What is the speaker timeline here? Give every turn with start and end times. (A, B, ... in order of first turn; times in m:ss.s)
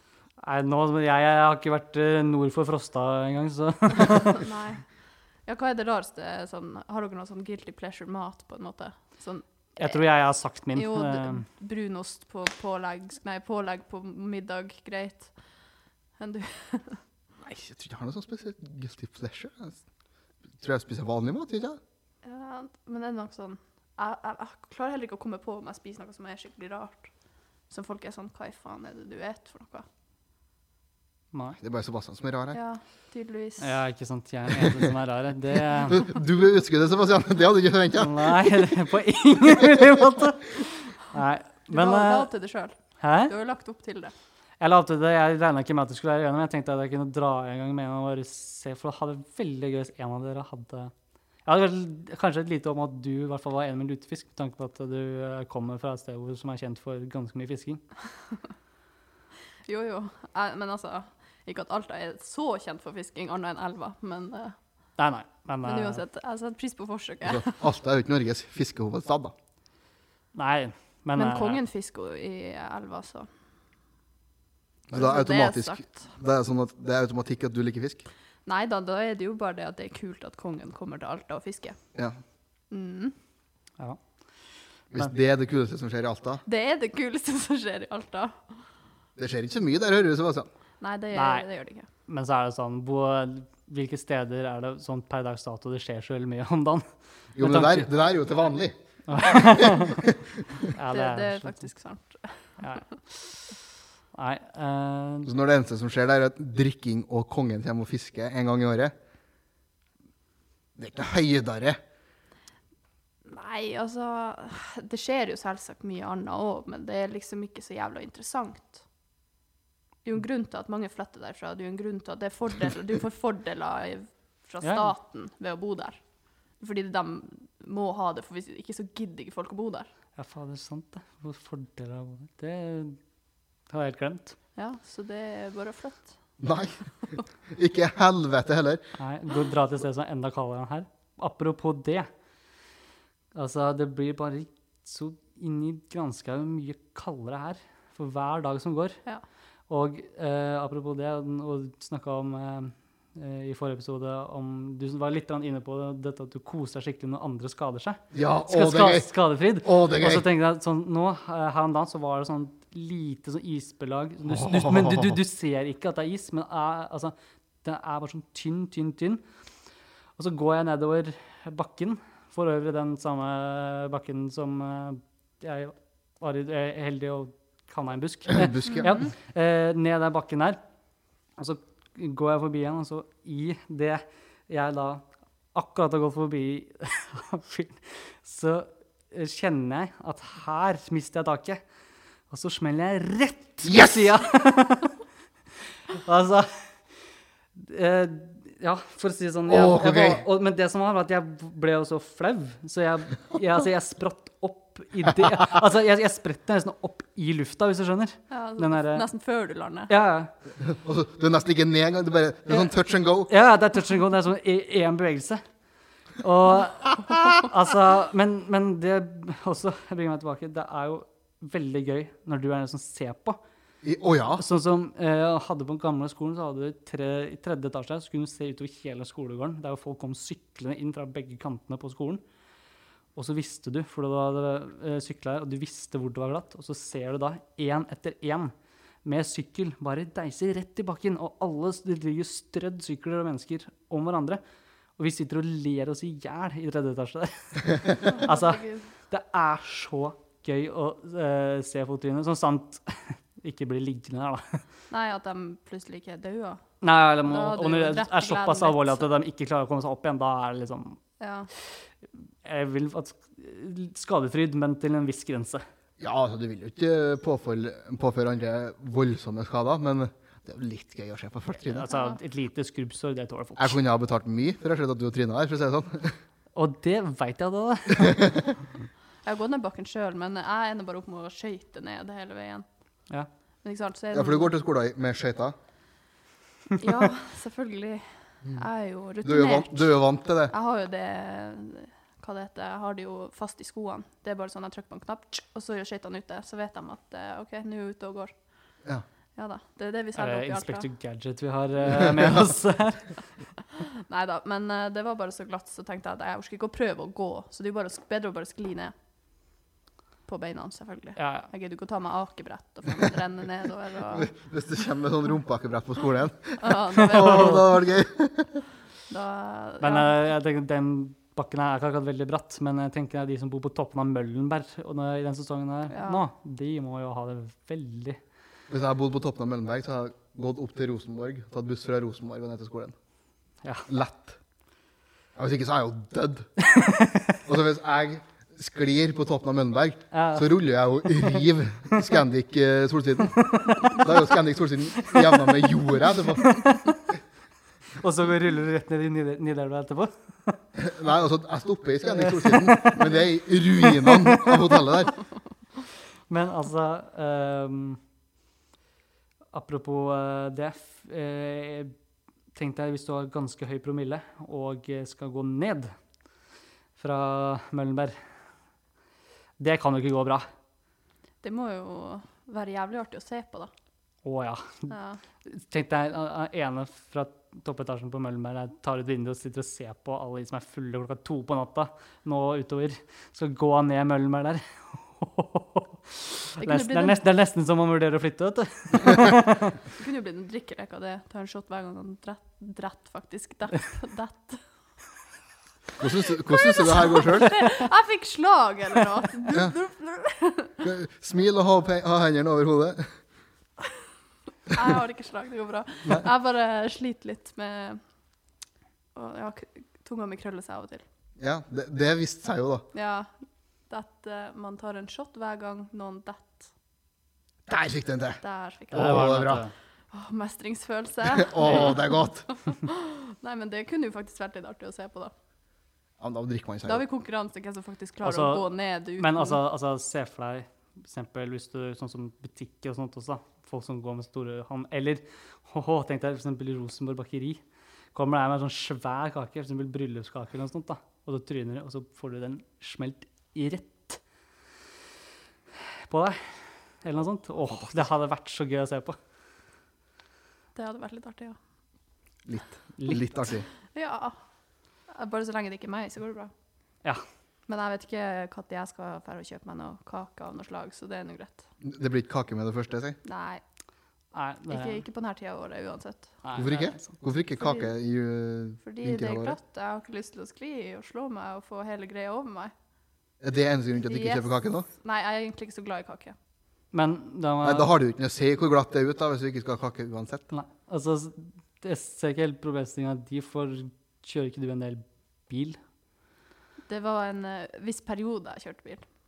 0:00.4-0:04.5 A
0:04.3-0:04.8 B
0:05.5-0:10.0 B
0:09.8-0:11.4 A
0:10.7-0:15.3 B
0:16.2-0:17.0 B
0:17.4-0:19.8 C
0:20.6-0:21.8 C
0:22.2-0:27.1 B
0:27.7-0:29.9 B
0:31.3-0:31.6 A
0:31.6-0:32.6 C
0:32.5-0:33.8 B
0:33.6-0:36.0 A
0:35.9-0:38.7 C
0:38.0-0:42.3 A
0:41.7-0:44.1 B
0:43.0-0:43.3 A
0:44.6-0:50.9 A
0:51.4-0:57.8 A
0:59.7-1:04.6 B
1:05.0-1:06.0 A
1:05.6-1:07.6 B
1:07.2-1:09.3 C
1:10.3-1:11.6 A
1:11.1-1:13.3 B
1:14.9-1:18.0 C
1:14.9-1:16.1 B
1:18.4-1:21.8 B
1:22.7-1:23.1 B
1:24.9-1:26.4 C
1:26.4-1:28.4 B
1:29.2-1:30.5 C
1:30.8-1:31.9 B
1:31.1-1:31.4 A
1:32.1-1:36.8 A
1:37.4-1:40.2 C
1:37.4-1:37.9 A
1:39.1-1:41.6 A
1:40.9-1:42.6 B
1:42.6-1:43.6 A
1:44.1-1:45.3 A
1:45.2-1:48.9 C
1:50.8-1:51.8 C
1:53.2-1:58.8 B
2:00.0-2:06.0 B
2:04.6-2:04.9 A
2:06.6-2:09.9 B
2:10.2-2:13.0 A
2:13.7-2:14.4 A
2:14.6-2:16.1 B
2:16.4-2:16.8 C
2:17.5-2:18.8 C
2:19.0-2:22.1 A
2:23.3-2:29.0 A
2:29.7-2:49.2 A
2:38.1-2:39.1 C
2:39.6-2:40.3 C
2:44.2-2:45.2 C
2:50.2-3:00.6 A
2:58.3-2:59.0 C
2:58.7-2:59.1 B
3:01.4-3:11.6 A
3:12.3-3:14.9 A
3:13.6-3:14.1 C
3:15.9-3:16.5 A
3:17.6-3:29.0 A
3:19.5-3:20.2 C
3:28.3-3:29.9 B
3:29.9-3:30.3 A
3:30.6-3:33.3 C
3:33.3-3:35.4 A
3:36.2-3:43.4 A
3:43.8-3:44.4 C
3:44.4-3:52.2 A
3:53.2-3:58.5 A
3:59.0-4:04.4 A
4:05.0-4:14.6 A
4:08.1-4:08.8 B
4:14.9-4:16.6 B
4:16.8-4:21.0 A
4:17.2-4:19.1 B
4:21.2-4:21.5 B
4:22.4-4:25.6 A
4:26.0-4:31.9 C
4:31.6-4:33.8 A
4:31.9-4:32.2 B
4:33.6-4:36.1 C
4:36.5-4:38.5 A
4:38.0-4:38.3 C
4:39.2-4:42.6 B
4:43.6-4:44.5 B
4:44.1-4:45.5 C
4:46.8-4:50.0 B
4:49.2-4:50.5 C
4:50.5-4:58.3 B
4:59.4-5:00.8 B
5:00.2-5:03.2 A
5:02.0-5:02.4 C
5:03.8-5:08.9 B
5:10.3-5:14.3 B
5:11.2-5:11.5 A
5:14.1-5:18.6 C
5:16.6-5:17.7 B
5:17.2-5:17.6 A
5:19.1-5:20.1 B
5:19.8-5:28.2 A
5:25.9-5:26.2 B
5:28.7-5:32.9 C
5:33.9-5:34.4 C
5:35.4-5:36.5 C
5:36.6-5:37.4 A
5:37.4-5:46.5 C
5:40.1-5:40.5 A
5:43.3-5:44.3 A
5:45.0-5:47.1 A
5:48.0-5:50.6 A
5:50.8-5:55.1 C
5:52.2-5:53.2 A
5:53.8-5:54.8 A
5:56.3-5:58.0 A
5:59.5-6:01.9 A
6:02.5-6:05.9 A
6:07.0-6:08.1 A
6:09.6-6:10.5 A
6:11.4-6:13.7 B
6:14.2-6:14.9 A
6:14.9-6:15.2 B
6:15.4-6:29.8 A
6:26.6-6:27.2 B
6:29.9-6:34.6 B
6:36.0-6:37.5 C
6:36.4-6:40.8 B
6:40.8-6:43.1 C
6:44.7-6:48.0 B
6:49.1-6:51.0 B
6:51.4-6:52.8 C
6:52.9-6:53.3 B
6:53.9-6:56.7 B
6:57.7-6:58.4 C
6:58.4-6:59.3 B
6:58.9-6:59.6 C
6:58.9-6:59.7 A
7:00.1-7:05.3 B
7:01.3-7:02.5 C
7:06.2-7:07.0 C
7:06.8-7:09.6 B
7:08.2-7:17.6 A
7:18.1-7:24.2 A
7:26.1-7:29.2 A
7:30.7-7:31.6 B
7:32.4-7:33.7 C
7:33.0-7:33.2 A
7:33.9-7:34.4 B
7:35.1-7:36.5 B
7:37.7-7:41.6 B
7:41.8-7:43.2 C
7:43.2-7:43.6 B
7:44.3-7:45.0 A
7:44.7-7:46.3 B
7:46.4-7:47.0 A
7:46.6-7:49.6 C
7:47.6-7:47.9 B
7:48.8-7:52.7 B
7:53.4-7:54.8 C
7:54.1-7:56.3 B
7:56.9-7:57.9 A
7:57.6-8:00.4 C
8:00.5-8:05.8 A
8:06.9-8:09.0 B